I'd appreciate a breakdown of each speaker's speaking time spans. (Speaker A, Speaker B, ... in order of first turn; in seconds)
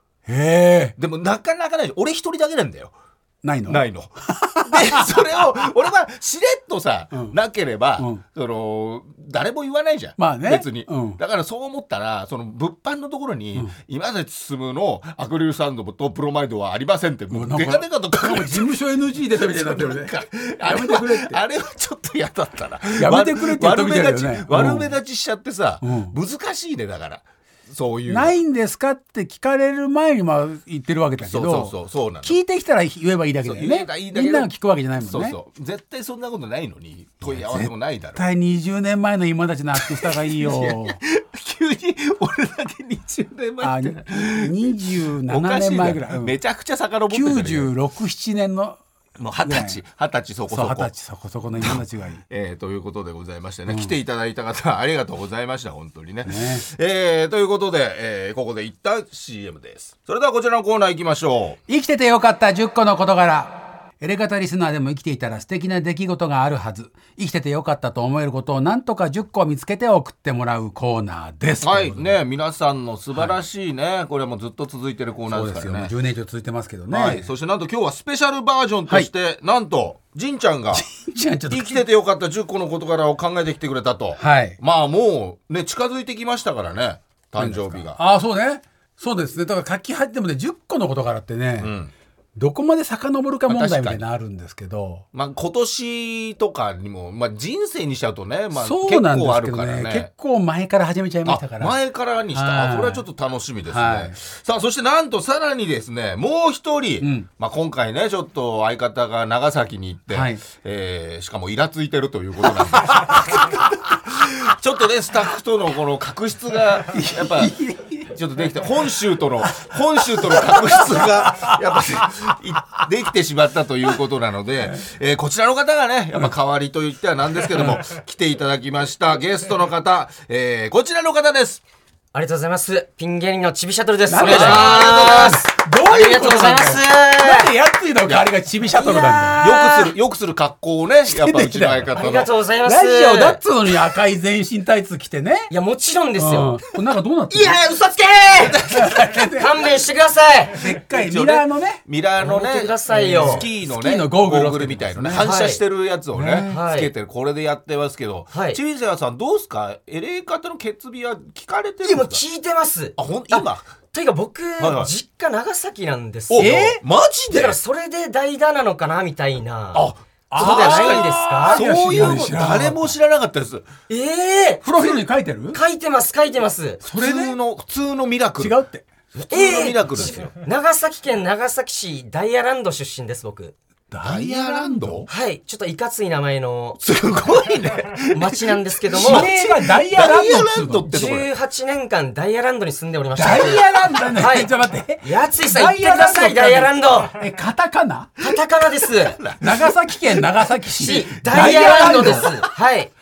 Speaker A: 0.2-0.9, 3.4-5.3, 7.1-7.4, 8.0-8.2, 10.2-11.2, 17.3-21.4, 23.0-24.9, 25.8-26.1, 28.1-35.4, 37.2-41.0, 43.6-46.4, 47.1-48.8, 49.4-49.8, 50.5-52.2, 53.7-53.9, 56.2-56.6, 61.7-72.2, 75.3-77.2, 80.7-81.8, 84.2-84.6, 87.4-91.7, 92.3-95.0, 98.5-101.8, 102.3-103.0, 103.7-104.2, 107.0-107.3, 110.1-110.4, 112.4-113.6, 116.9-118.1, 119.4-121.6, 127.4-127.8, 134.1-139.6, 141.1-142.1, 142.6-145.5, 146.2-147.6, 148.7-149.7, 150.6-151.8, 152.9-155.3, 156.1-156.6, 166.4-166.8, 170.3-172.9, 174.6-175.6, 176.8-177.4, 178.4-178.9, 183.9-185.1, 188.9-191.0, 193.2-198.2, 199.4-202.4
Speaker B: 1.0-2.9, 3.7-18.8, 19.3-28.3, 31.2-32.4, 33.4-38.3, 39.8-47.7, 49.2-50.9, 51.6-61.6, 71.6-75.9, 76.9-80.8, 81.5-88.0, 91.6-91.9, 93.5-94.0, 95.1-100.1, 101.2-131.6, 134.2-135.4, 138.0-138.3, 139.4-142.3, 148.4-149.3, 150.7-162.2, 162.9-163.7, 164.6-164.9, 166.3-167.6, 169.7-173.7, 176.8-178.6, 179.1-180.3, 184.0-185.1, 186.8-191.3, 199.0-202.5
Speaker C: 132.1-137.5, 138.8-139.9, 141.9-143.4, 145.5-146.6, 147.3-148.6, 149.3-150.7, 152.2-153.4, 155.1-155.6, 156.4-156.9, 158.3-158.6, 161.8-166.8, 167.3-172.1, 173.9-174.8, 175.5-176.8, 179.3-183.5, 185.1-186.8, 188.1-189.3, 190.8-197.2, 198.2-199.2, 200.8-202.9